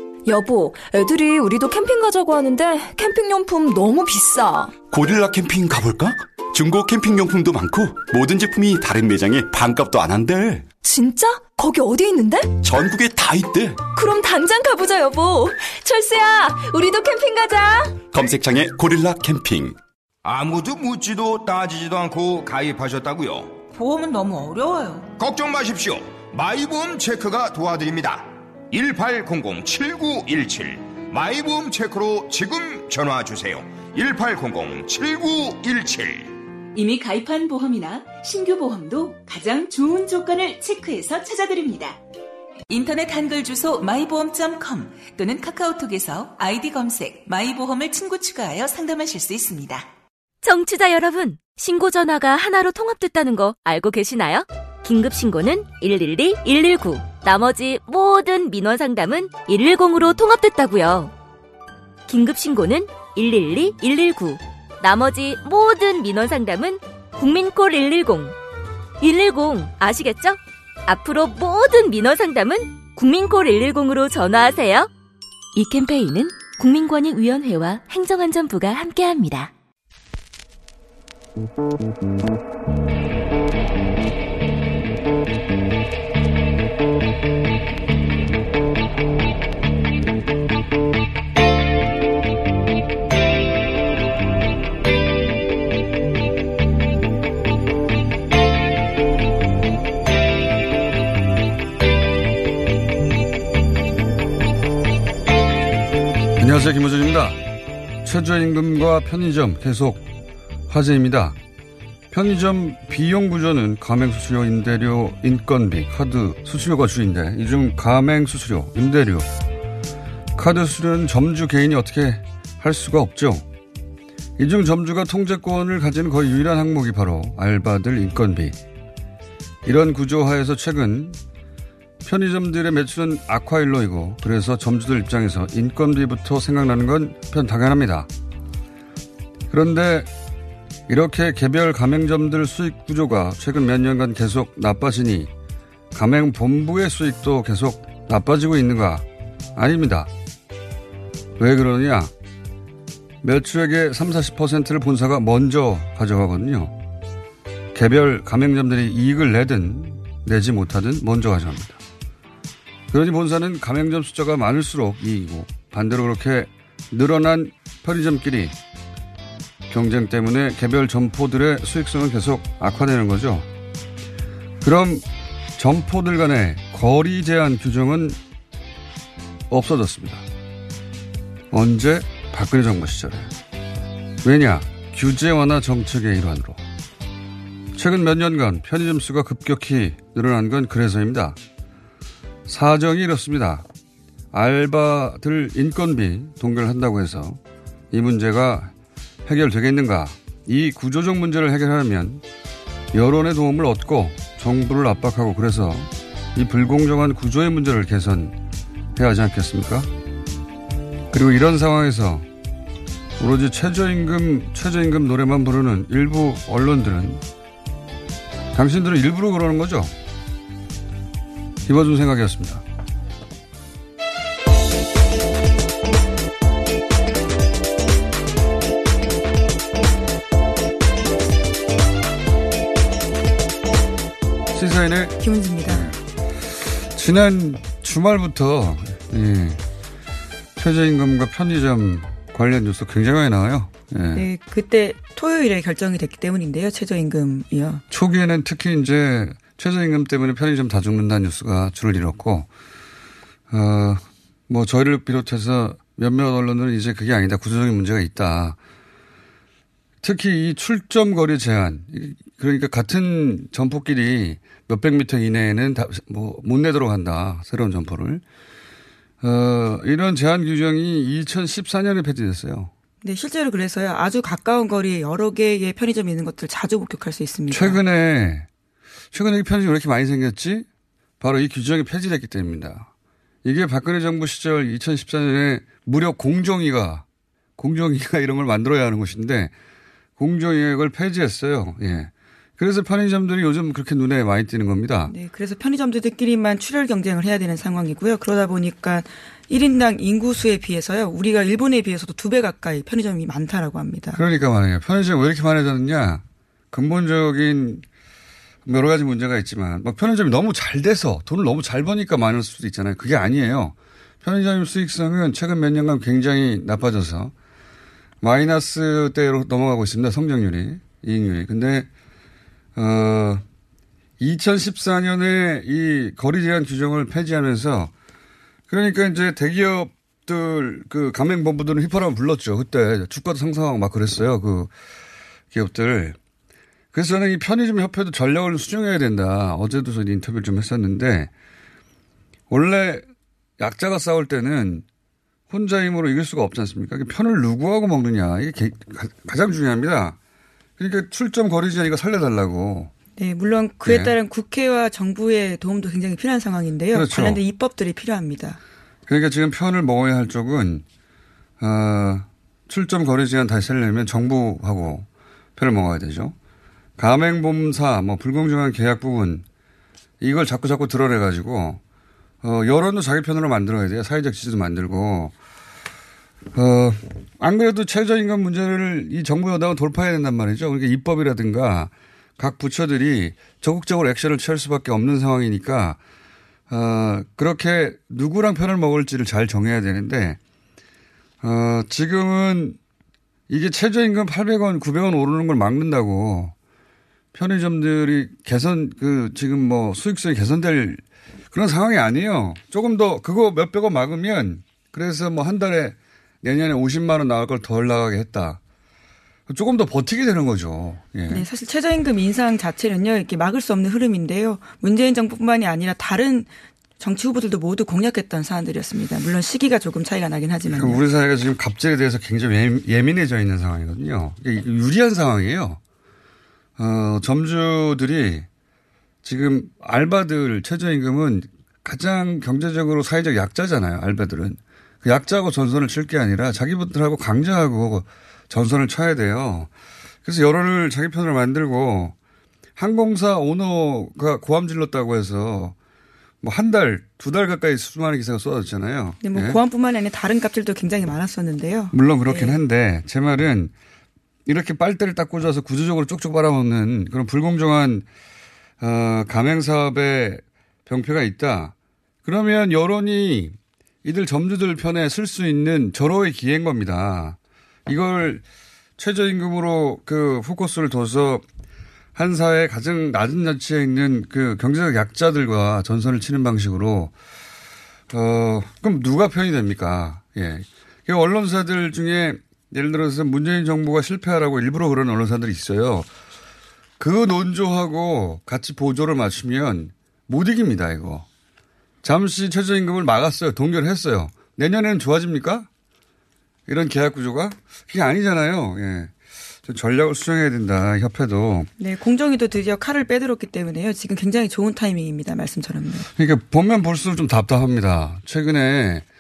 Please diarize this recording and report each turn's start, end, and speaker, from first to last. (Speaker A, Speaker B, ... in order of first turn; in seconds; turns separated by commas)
Speaker A: 0.2-4.8, Speaker B: 4.9-10.7, Speaker A: 10.8-12.6, Speaker B: 12.6-13.9, Speaker A: 13.9-18.0, Speaker B: 18.1-19.8, Speaker C: 20.2-23.6, Speaker D: 23.7-25.1, Speaker C: 25.2-36.4, Speaker D: 36.7-42.0, Speaker D: 42.7-49.9, Speaker E: 50.4-61.1, Speaker E: 62.1-68.3, Speaker E: 69.0-74.9, Speaker E: 75.5-79.5, Speaker F: 106.4-107.4, Speaker F: 108.0-110.0, Speaker F: 110.7-111.4, Speaker F: 112.1-119.3, Speaker F: 120.3-123.4, Speaker F: 124.4-128.6, Speaker F: 129.6-131.2, Speaker F: 132.0-138.1, Speaker F: 139.5-140.1, Speaker F: 140.9-145.3, Speaker F: 145.9-150.1, Speaker F: 151.4-152.1, Speaker F: 153.2-156.8, Speaker F: 157.7-161.8, Speaker F: 162.9-168.5, Speaker F: 169.7-173.5, Speaker F: 174.6-175.0, Speaker F: 175.6-178.2, Speaker F: 179.5-180.2, Speaker F: 181.5-183.3, Speaker F: 184.2-186.6, Speaker F: 187.7-191.4, Speaker F: 192.4-193.6, Speaker F: 194.3-197.4, Speaker F: 197.9-198.7, Speaker F: 199.2-202.2, Speaker F: 202.9-208.3, Speaker F: 208.9-209.9, Speaker F: 211.1-212.2, Speaker F: 213.2-217.2, Speaker F: 218.5-219.9, Speaker F: 221.6-222.6, Speaker F: 234.5-239.6, Speaker G: 235.2-235.9, Speaker F: 240.6-244.2, Speaker G: 244.1-247.8, Speaker F: 247.9-252.5, Speaker F: 253.5-258.6, Speaker F: 260.0-268.2, Speaker F: 269.2-272.7, Speaker G: 273.0-277.8, Speaker F: 277.5-278.5, Speaker F: 279.1-280.7, Speaker F: 281.2-282.9, Speaker F: 283.4-287.0, Speaker F: 287.6-289.5, Speaker F: 290.2-295.1, Speaker G: 295.1-304.2, Speaker F: 304.1-307.8, Speaker F: 308.6-317.3, Speaker F: 318.2-321.9, Speaker F: 322.8-323.4, Speaker F: 324.2-327.9, Speaker F: 328.7-334.7, Speaker F: 335.5-336.2, Speaker F: 336.9-341.3, Speaker F: 342.5-343.0, Speaker F: 343.6-344.8, Speaker F: 345.5-350.1, Speaker F: 350.8-352.9, Speaker G: 353.2-358.6, Speaker F: 353.8-354.1, Speaker F: 356.9-357.4, Speaker F: 359.1-360.8, Speaker F: 361.6-366.3, Speaker F: 367.0-369.4, Speaker F: 370.2-371.8, Speaker F: 372.4-375.3, Speaker F: 376.5-386.0, Speaker F: 386.7-390.4, Speaker F: 391.4-392.8, Speaker F: 393.5-396.5, Speaker F: 397.3-408.6, Speaker F: 409.5-411.4, Speaker G: 411.3-421.0, Speaker F: 420.7-425.8, Speaker F: 426.8-428.5, Speaker F: 429.2-439.7, Speaker F: 440.2-442.1, Speaker F: 442.8-445.8, Speaker F: 446.4-449.6, Speaker G: 449.2-452.6, Speaker F: 451.9-453.7, Speaker F: 454.4-458.1, Speaker F: 458.8-461.7, Speaker F: 462.2-468.4, Speaker F: 469.0-471.4, Speaker F: 472.1-477.1, Speaker F: 478.1-486.1, Speaker F: 487.0-491.2, Speaker F: 492.0-495.7, Speaker F: 496.7-499.1, Speaker F: 499.6-501.7, Speaker G: 501.8-506.1, Speaker F: 506.1-509.0